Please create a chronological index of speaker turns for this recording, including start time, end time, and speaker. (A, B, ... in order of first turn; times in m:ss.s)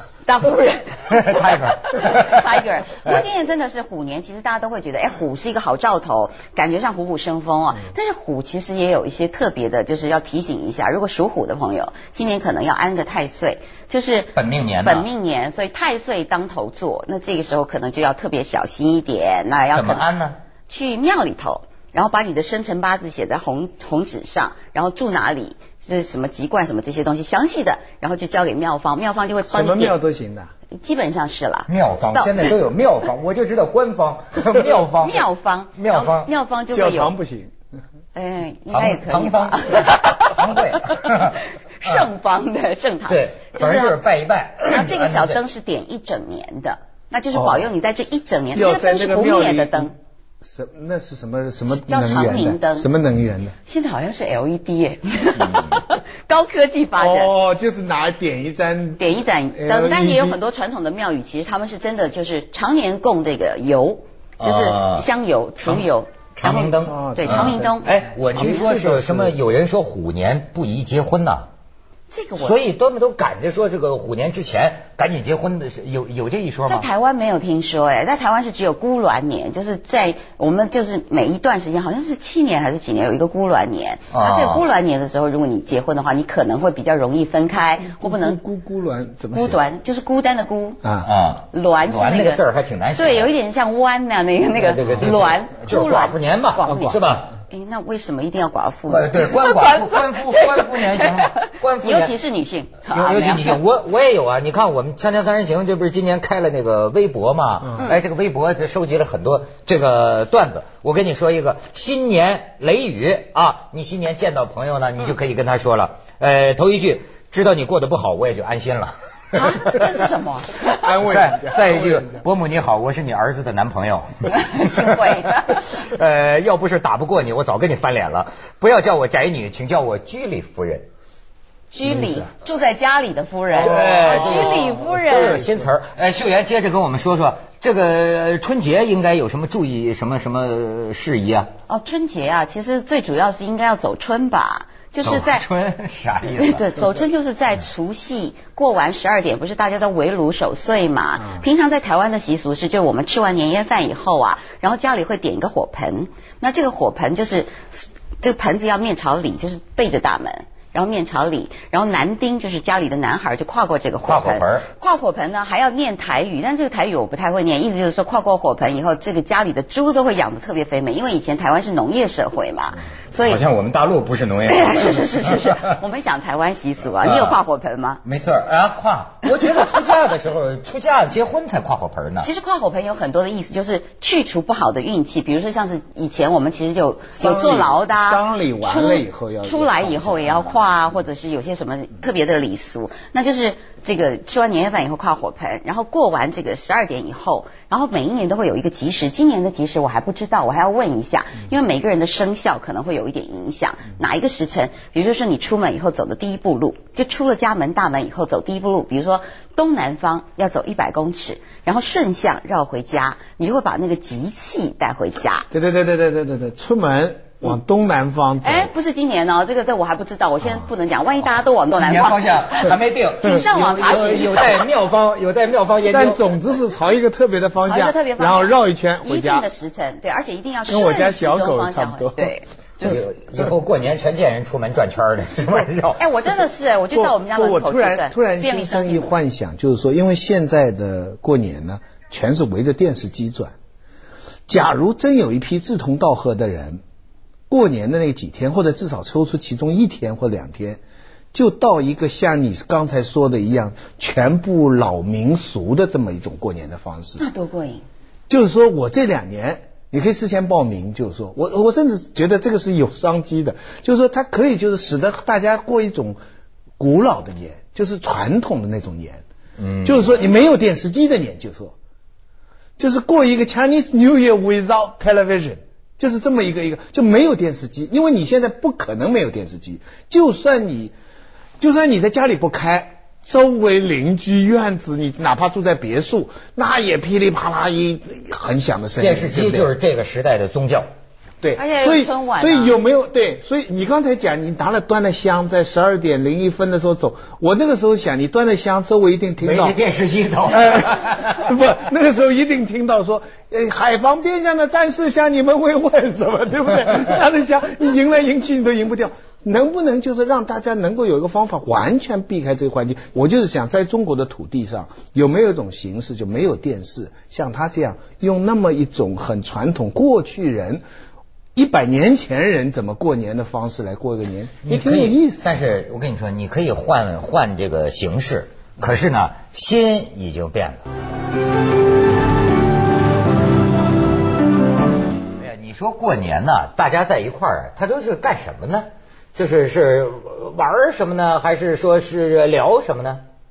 0:00.3-0:20.0 A
0:01.1-0:03.2 B
0:14.3-0:15.1 B
0:19.7-0:20.4 B
0:20.7-0:29.9 A
0:29.5-0:30.5 C
0:30.8-0:32.5 A
0:31.7-0:36.3 B
0:34.7-0:37.1 A
0:36.7-0:37.5 C
0:38.1-0:44.0 A
0:38.7-0:42.1 B
0:43.1-0:45.4 B
0:44.6-0:49.9 A
0:47.3-0:47.7 C
0:48.5-0:53.5 C
0:51.7-0:52.9 A
0:53.6-0:57.3 A
0:55.4-0:55.8 B
0:57.0-0:59.0 C
0:59.0-1:07.9 A
0:59.5-1:00.4 C
1:04.4-1:05.0 B
1:05.6-1:11.5 B
1:06.8-1:07.7 C
1:08.3-1:09.4 C
1:12.1-1:12.6 A
1:12.4-1:16.9 B
1:16.6-1:28.4 A
1:24.1-1:24.7 B
1:27.8-1:29.6 C
1:29.3-1:30.8 A
1:30.8-1:31.1 C
1:31.0-1:33.3 B
1:31.5-1:32.4 A
1:33.0-1:43.6 A
1:34.5-1:37.3 B
1:36.6-1:37.0 C
1:38.9-1:42.1 B
1:42.9-1:59.8 B
1:59.3-2:00.8 A
2:00.7-2:02.2 C
2:01.0-2:10.9 B
2:04.3-2:05.7 A
2:11.7-2:15.4 A
2:11.8-2:12.3 C
2:13.6-2:21.5 B
2:13.7-2:15.6 C
2:21.7-2:25.4 A
2:25.0-2:26.8 B
2:26.3-2:53.4 A
2:44.0-2:44.7 B
2:53.2-2:55.7 B
2:54.4-2:58.0 A
2:57.0-2:57.4 B
2:58.0-3:02.3 B
3:02.2-3:35.5 A
3:07.2-3:10.6 C
3:35.5-3:38.7 C
3:38.4-3:44.6 A
3:41.7-3:46.2 B
3:45.9-3:49.5 C
3:47.6-3:53.0 A
3:50.7-3:52.3 C
3:52.8-3:56.0 B
3:56.0-3:59.1 A
3:56.9-4:03.5 C
4:04.5-4:06.8 C
4:07.5-4:10.8 C
4:11.3-4:17.2 C
4:17.2-4:17.8 A
4:18.3-4:26.2 C
4:26.8-4:29.2 C
4:29.6-4:30.1 B
4:29.8-4:31.7 C
4:32.8-4:40.9 C
4:41.6-4:49.7 C
4:49.0-4:50.9 B
4:51.4-4:59.8 C
4:51.6-4:52.8 A
4:59.4-5:01.5 B
5:00.4-5:20.8 C
5:21.5-5:25.5 C
5:24.6-5:30.8 B
5:35.4-5:43.2 B